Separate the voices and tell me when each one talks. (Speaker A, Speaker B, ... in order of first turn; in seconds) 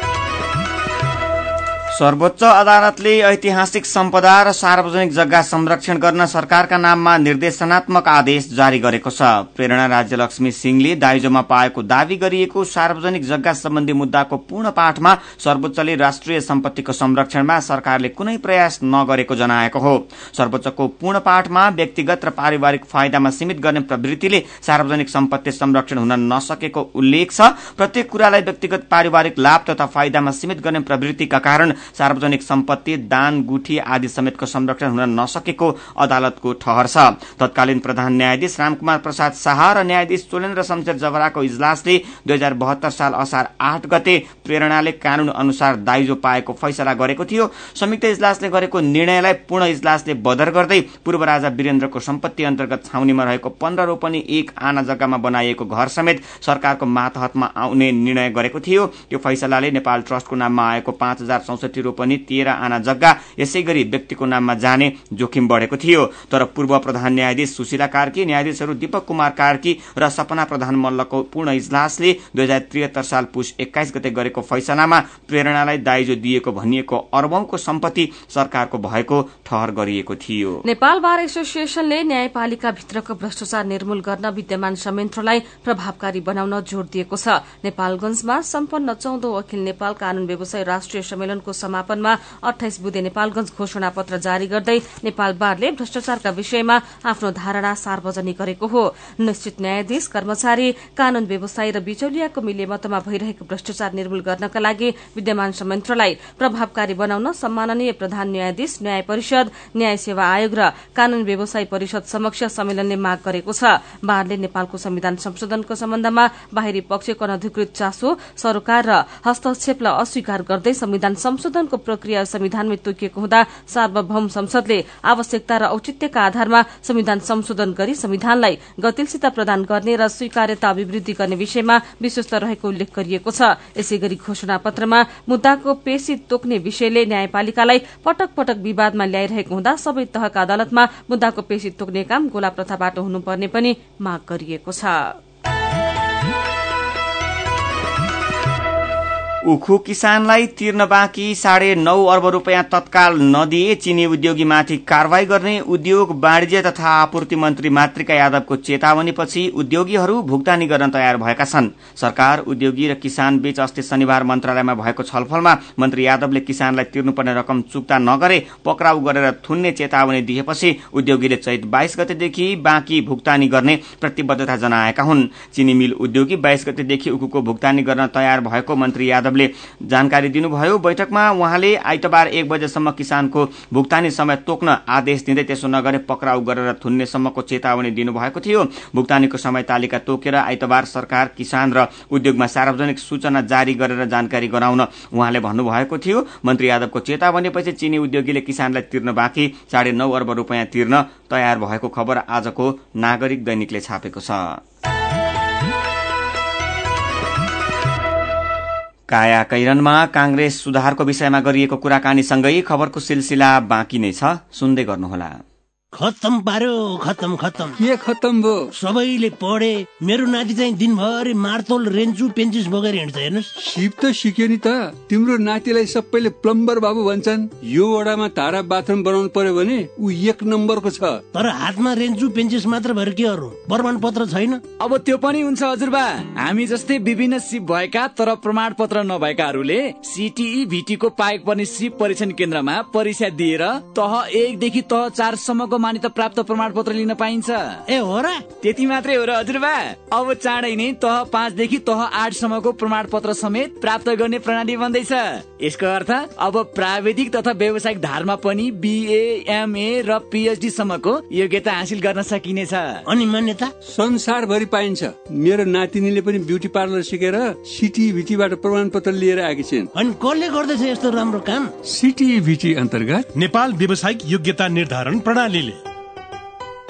Speaker A: 1.9-80.6, 149.4-204.6, 209.1-215.4
Speaker B: 80.6-145.1
Speaker C: 215.9-217.8, 218.7-223.5, 231.3-234.6, 247.8-248.5, 263.0-263.7, 269.9-271.7
Speaker D: 217.8-218.7, 223.6-231.2, 263.8-269.9, 271.9-273.3
Speaker E: 234.8-247.8, 248.6-263.0